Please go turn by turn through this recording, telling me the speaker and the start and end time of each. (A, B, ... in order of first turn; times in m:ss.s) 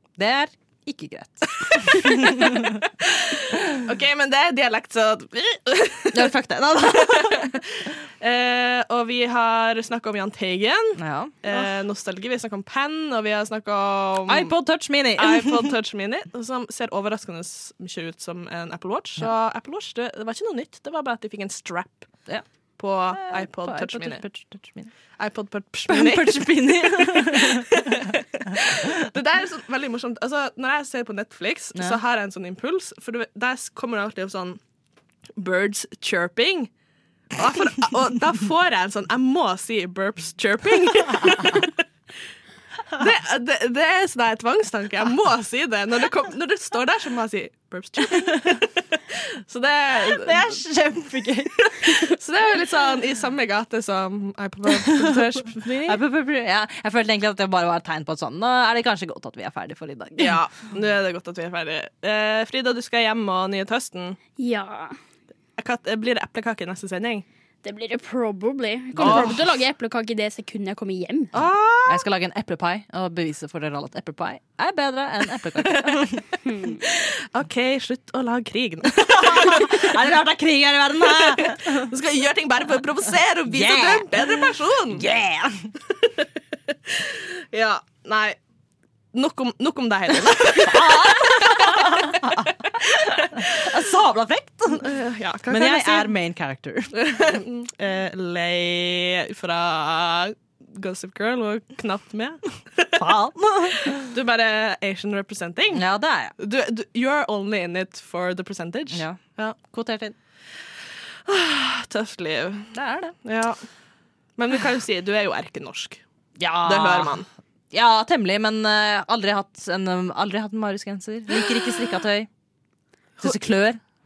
0:00.2-0:02.8 A
0:01.7-0:14.5 B
0:06.1-0:07.5 A
0:11.0-0:11.6 A
0:14.3-0:15.7 A
0:15.2-0:22.1 B
0:22.8-0:24.2 B
0:23.1-0:24.9 A
0:25.2-0:34.6 B
0:25.9-0:27.8 A
0:31.7-0:32.0 A
0:35.4-0:36.7 B
0:37.3-0:41.8 B
0:43.0-0:50.5 B
0:50.0-0:52.0 A
0:51.8-0:56.0 B
0:54.7-0:55.2 A
0:55.8-1:00.4 A
1:00.2-1:04.2 B
1:04.4-1:05.0 C
1:05.6-1:07.2 B
1:07.6-1:11.3 C
1:09.0-1:09.5 A
1:09.0-1:09.3 B
1:11.3-1:12.0 B
1:11.4-1:16.3 A
1:16.4-1:16.8 C
1:16.8-1:20.0 B
1:18.9-1:21.9 A
1:21.0-1:25.0 B
1:23.5-1:25.7 A
1:26.0-1:28.4 B
1:29.1-1:32.5 B
1:30.3-1:34.9 A
1:33.0-1:33.4 B
1:34.7-1:36.1 B
1:35.5-1:36.9 A
1:36.9-1:43.0 B
1:43.0-1:44.0 A
1:44.0-1:45.8 B
1:45.7-1:46.4 A
1:46.4-1:49.6 B
1:48.9-1:50.1 A
1:51.2-1:52.7 B
1:52.7-1:53.2 A
1:53.2-1:53.6 B
1:54.4-1:56.0 B
1:56.4-1:57.2 A
1:56.6-1:57.2 B
1:57.7-2:02.3 A
2:03.2-2:03.8 A